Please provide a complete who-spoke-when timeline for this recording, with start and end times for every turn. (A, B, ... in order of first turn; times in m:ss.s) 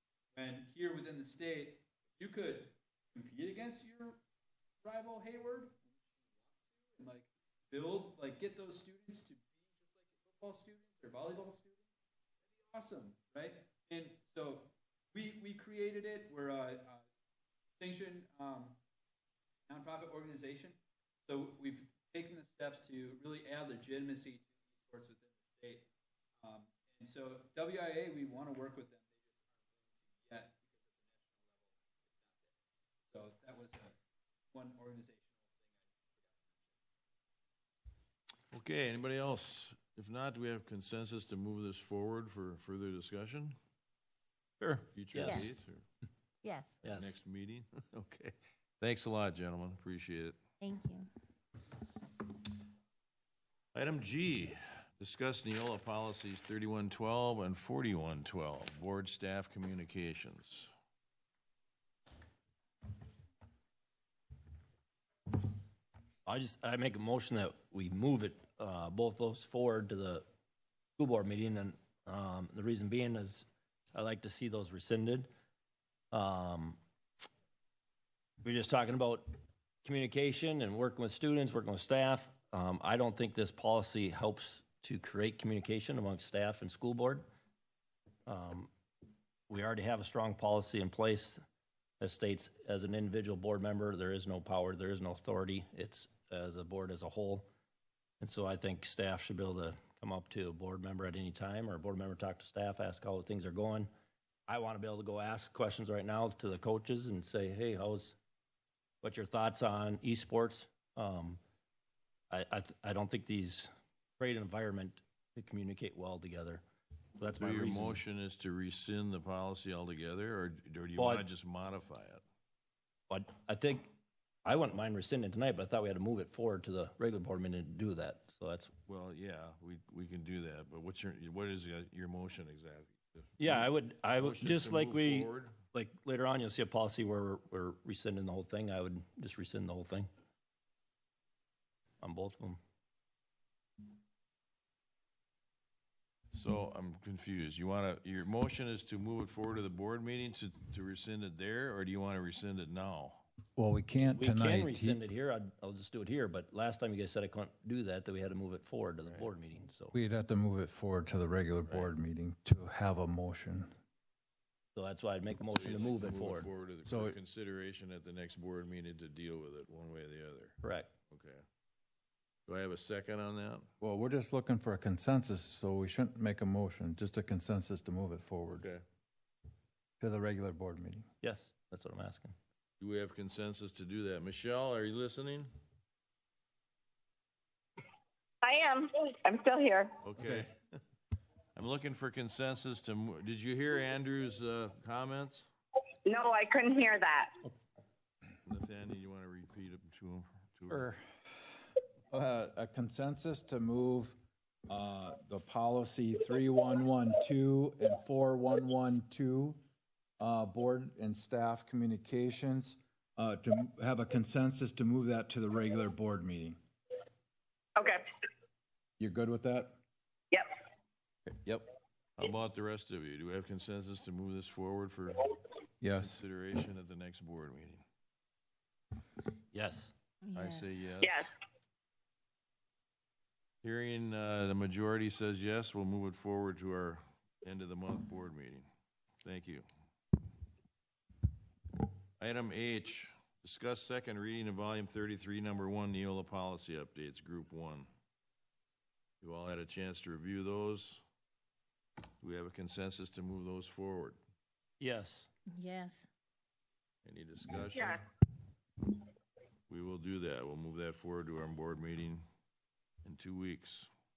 0:00.3-0:04.2 A
0:04.8-0:05.9 A
0:06.9-0:11.8 A
0:12.6-0:17.0 A
0:17.8-0:18.8 A
0:19.7-0:25.9 A
0:26.4-0:29.1 A
0:30.2-0:32.5 A
0:33.1-0:34.0 A
0:34.5-0:36.7 A
0:38.5-0:43.5 B
0:44.6-0:45.5 C
0:44.9-0:45.8 B
0:45.2-0:45.6 D
0:46.4-0:46.7 D
0:46.8-0:47.2 C
0:46.8-0:50.4 B
0:50.6-0:51.1 D
0:53.7-1:00.7 B
1:06.2-1:10.2 C
1:11.0-1:15.3 C
1:16.1-1:16.8 C
1:18.4-1:19.3 C
1:19.8-1:27.2 C
1:28.3-1:28.7 C
1:29.5-1:31.4 C
1:32.0-1:37.5 C
1:38.2-1:43.9 C
1:44.5-1:48.2 C
1:49.0-1:51.4 C
1:52.3-1:56.6 C
1:57.2-1:58.0 C
1:57.4-2:02.2 B
2:01.0-2:01.2 C
2:03.1-2:03.9 C
2:04.4-2:08.7 C
2:08.9-2:15.6 B
2:13.4-2:20.1 C
2:22.0-2:22.6 C
2:26.3-2:33.2 B
2:33.6-2:35.0 E
2:34.0-2:39.9 C
2:39.9-2:43.7 E
2:44.7-2:46.5 C
2:45.4-2:50.6 B
2:46.8-2:47.2 E
2:50.6-2:50.9 C
2:51.1-2:51.4 B
2:52.5-2:53.7 B
2:53.8-2:58.7 E
2:58.5-2:58.8 B
3:00.0-3:01.0 E
3:01.2-3:02.3 C
3:02.8-3:05.5 B
3:08.4-3:09.9 F
3:10.0-3:10.6 B
3:11.6-3:15.5 B
3:16.0-3:17.3 F
3:18.4-3:20.8 B
3:20.7-3:21.0 E
3:22.1-3:24.2 E
3:24.7-3:29.6 E
3:30.2-3:36.6 E
3:37.8-3:38.0 F
3:39.0-3:39.8 E
3:41.3-3:41.7 E
3:42.2-3:45.4 B
3:45.8-3:46.2 E
3:45.9-3:47.8 B
3:49.5-3:49.9 C
3:50.2-3:50.8 D
3:50.3-3:51.3 B
3:51.0-3:51.3 F
3:53.6-3:58.7 B
3:59.2-3:59.6 B
4:02.2-4:07.9 B
4:09.2-4:11.0 B
4:12.2-4:14.2 B
4:14.8-4:15.3 C
4:15.5-4:16.1 D
4:17.0-4:18.0 B
4:17.7-4:18.0 F
4:19.7-4:22.2 B
4:23.0-4:23.9 B